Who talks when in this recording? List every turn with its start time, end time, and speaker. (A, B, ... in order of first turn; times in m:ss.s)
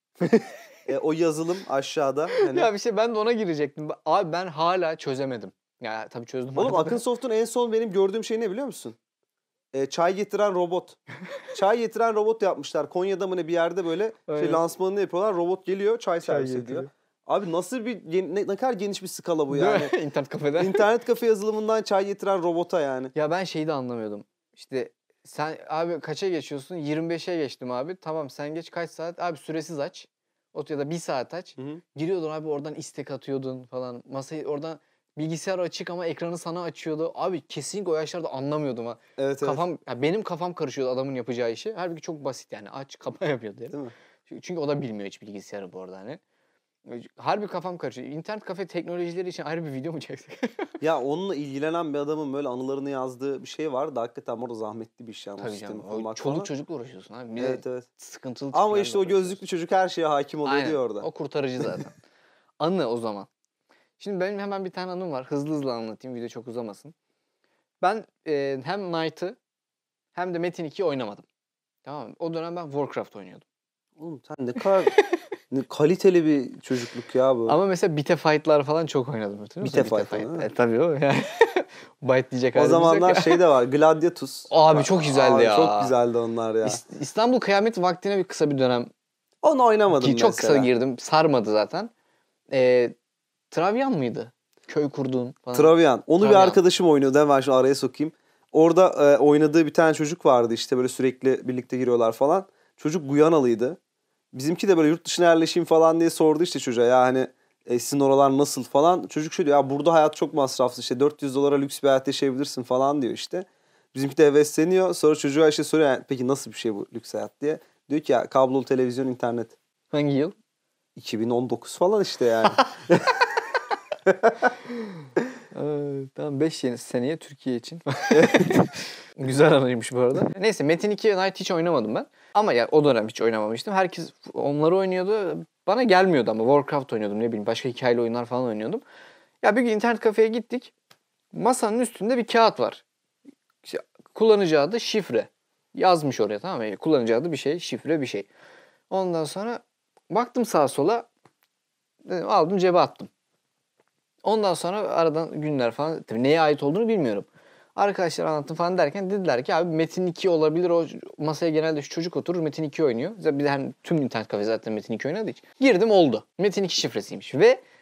0:00.2-0:00.6 A
0:00.9-0:02.7 B
0:02.4-0:07.0 A
0:06.6-0:09.0 B
0:09.7-0:11.0 B
0:11.5-0:19.9 B
0:14.3-0:14.6 A
0:16.2-0:16.9 A
0:19.5-0:20.8 A
0:20.6-0:23.1 B
0:23.2-0:46.2 A
0:31.6-0:31.8 B
0:39.2-0:39.6 B
0:46.9-0:50.7 A
0:50.8-0:56.5 B
0:55.4-0:59.4 A
0:57.4-0:57.9 B
0:58.5-1:01.1 B
1:00.4-1:02.0 A
1:02.6-1:03.3 A
1:04.0-1:06.9 A
1:07.8-1:09.4 A
1:10.2-1:11.2 A
1:11.8-1:13.4 A
1:14.0-1:15.0 B
1:15.5-1:17.6 B
1:17.5-1:23.4 A
1:19.6-1:20.5 B
1:22.6-1:26.8 B
1:24.5-1:25.9 A
1:26.6-1:28.9 A
1:29.4-1:30.7 B
1:29.9-1:31.9 A
1:32.5-1:32.9 A
1:33.5-1:36.6 A
1:35.5-1:43.8 B
1:44.3-1:59.6 B
1:59.9-2:00.4 A
2:01.0-2:03.2 B
2:04.1-2:04.5 B
2:04.7-2:18.8 A
2:08.1-2:08.5 B
2:19.4-2:20.7 A
2:21.3-2:22.8 A
2:23.6-2:28.3 A
2:28.9-2:31.1 A
2:32.0-2:33.1 A
2:34.2-2:47.6 A